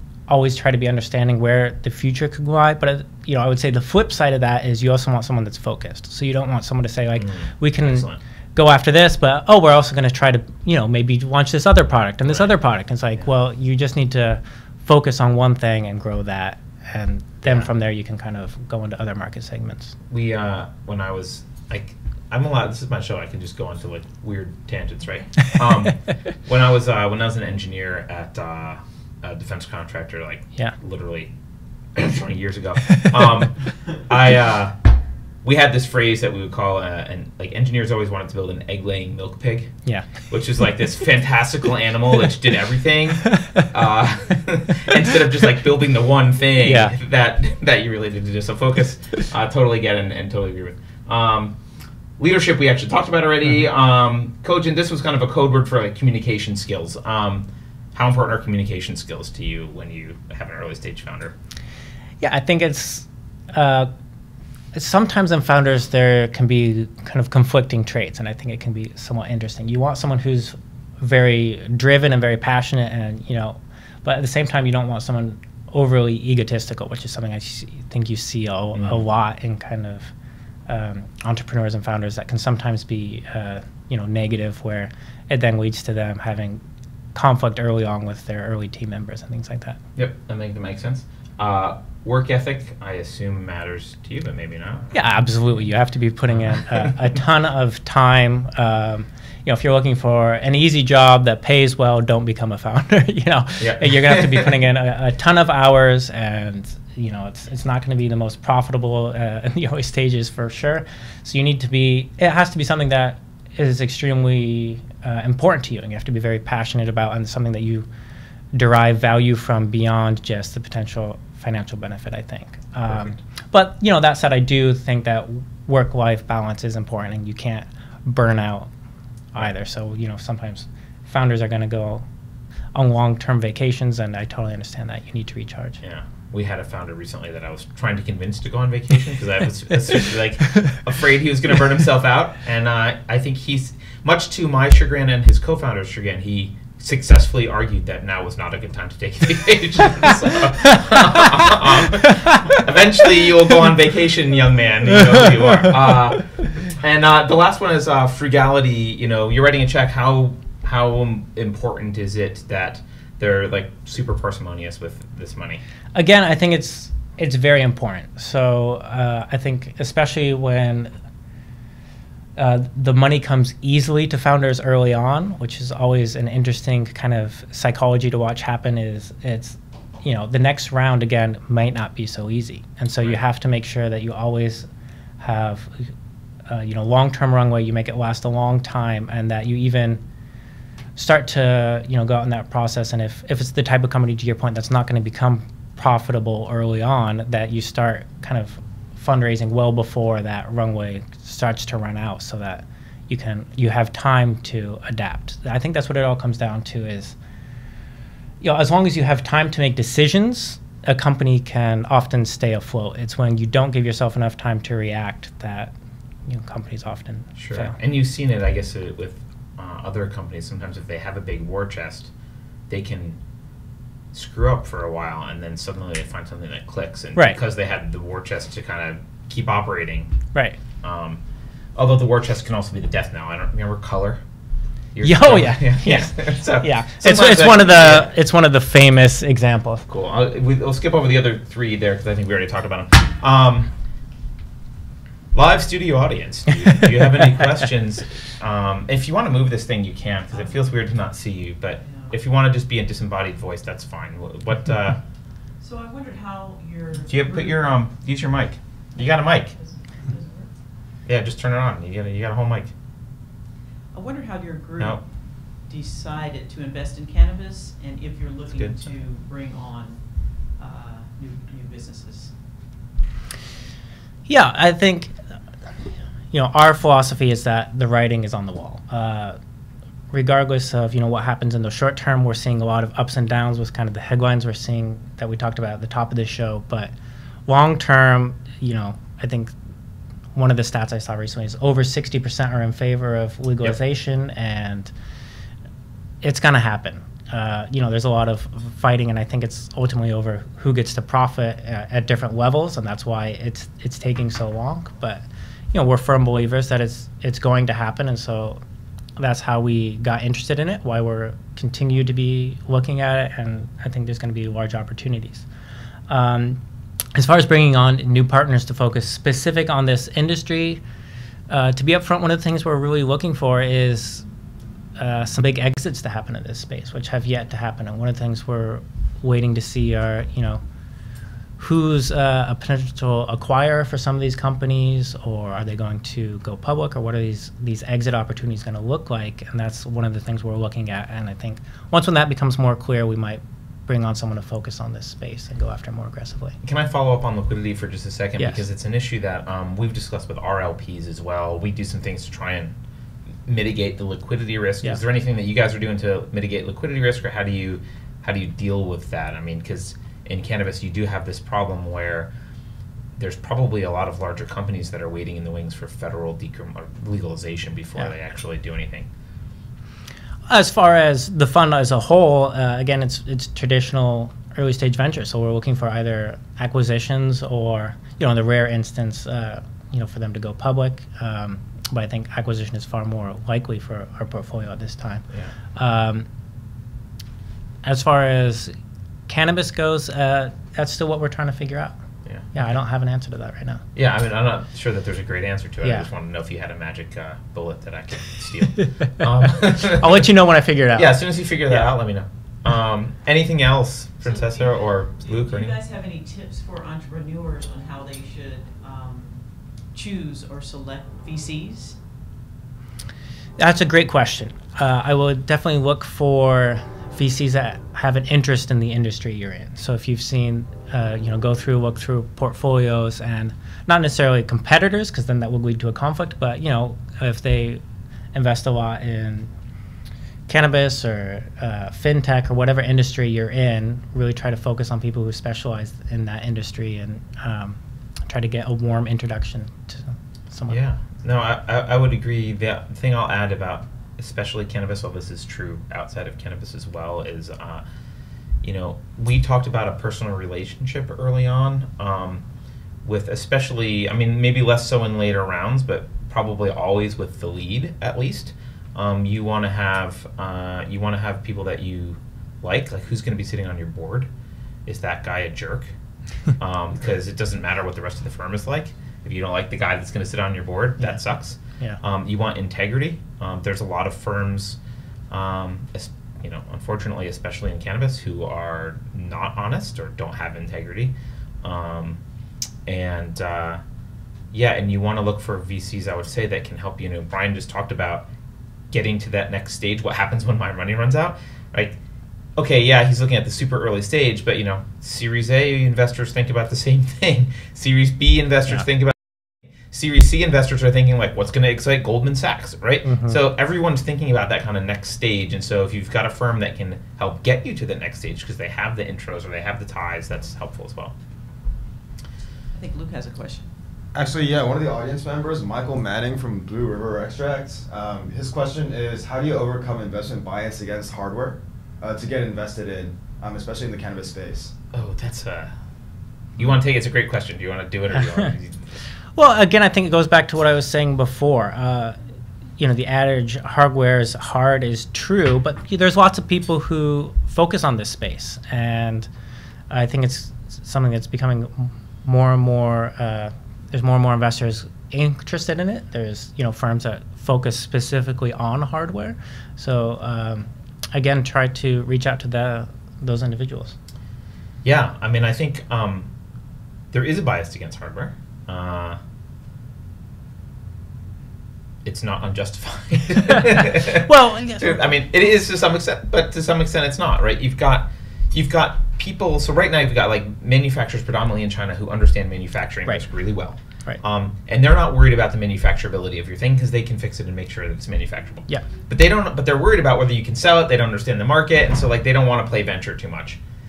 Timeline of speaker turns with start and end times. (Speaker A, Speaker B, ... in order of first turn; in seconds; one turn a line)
Speaker A: 0.3-19.9
Speaker B: 7.2-8.2
Speaker B: 20.1-31.3
Speaker B: 31.9-34.8
Speaker A: 33.0-33.4
Speaker B: 35.4-39.8
Speaker B: 40.3-51.6
Speaker A: 43.4-43.7
Speaker A: 46.6-47.0
Speaker B: 52.2-61.3
Speaker A: 62.2-63.9
Speaker A: 64.7-80.1
Speaker B: 78.7-79.0
Speaker A: 80.7-86.6
Speaker A: 87.1-89.8
Speaker B: 90.0-94.9
Speaker A: 94.9-117.9
Speaker B: 96.6-96.9
Speaker B: 103.6-104.6
Speaker A: 118.5-128.7
Speaker B: 122.9-123.2
Speaker A: 129.3-132.1
Speaker A: 132.8-135.8
Speaker B: 135.8-165.6
Speaker A: 151.1-152.6
Speaker A: 165.9-170.9
Speaker A: 172.4-184.7
Speaker A: 185.2-185.9
Speaker A: 186.5-190.0
Speaker A: 191.0-207.2
Speaker A: 208.4-215.7
Speaker A: 216.3-217.8
Speaker B: 217.4-222.1
Speaker B: 222.7-223.2
Speaker B: 224.1-230.2
Speaker B: 230.8-231.2
Speaker B: 231.8-234.2
Speaker B: 234.9-238.1
Speaker A: 235.0-239.8
Speaker B: 239.9-243.7
Speaker B: 245.3-255.0
Speaker A: 246.6-247.4
Speaker C: 250.3-250.6
Speaker C: 251.8-252.1
Speaker C: 255.6-257.6
Speaker B: 257.1-259.5
Speaker C: 259.0-260.5
Speaker B: 261.1-262.7
Speaker C: 263.9-265.1
Speaker C: 265.7-270.0
Speaker B: 268.6-268.8
Speaker C: 270.6-272.3
Speaker A: 274.3-275.1
Speaker A: 276.3-279.4
Speaker A: 280.1-286.9
Speaker A: 287.5-289.5
Speaker A: 290.4-294.9
Speaker A: 296.2-308.6
Speaker A: 309.2-315.5
Speaker A: 316.1-316.6
Speaker A: 317.1-320.8
Speaker A: 321.5-324.2
Speaker A: 325.0-330.6
Speaker A: 331.6-346.6
Speaker B: 346.6-352.8
Speaker B: 353.5-362.3
Speaker B: 363.2-369.1
Speaker A: 370.5-386.3
Speaker A: 387.8-388.8
Speaker A: 389.3-391.9
Speaker A: 392.5-393.8
Speaker B: 393.9-400.3
Speaker A: 399.4-401.1
Speaker B: 400.9-405.8
Speaker C: 404.2-409.4
Speaker C: 409.9-412.0
Speaker A: 413.6-427.8
Speaker A: 428.3-429.5
Speaker A: 430.5-440.8
Speaker B: 440.7-447.8
Speaker B: 448.6-452.4
Speaker B: 453.0-464.3
Speaker B: 464.9-465.9
Speaker B: 466.6-474.8
Speaker B: 475.3-482.2
Speaker B: 482.9-483.8
Speaker B: 484.5-488.3
Speaker B: 488.9-492.0
Speaker B: 492.6-499.4
Speaker B: 499.9-511.1
Speaker A: 503.1-503.4
Speaker C: 512.7-513.7
Speaker D: 514.1-524.7
Speaker B: 524.9-525.7
Speaker B: 526.6-529.0
Speaker A: 528.2-528.5
Speaker A: 529.4-532.2
Speaker A: 532.8-539.3
Speaker A: 539.9-554.0
Speaker B: 554.8-556.3
Speaker B: 557.1-559.2
Speaker B: 562.0-583.6
Speaker A: 563.9-565.0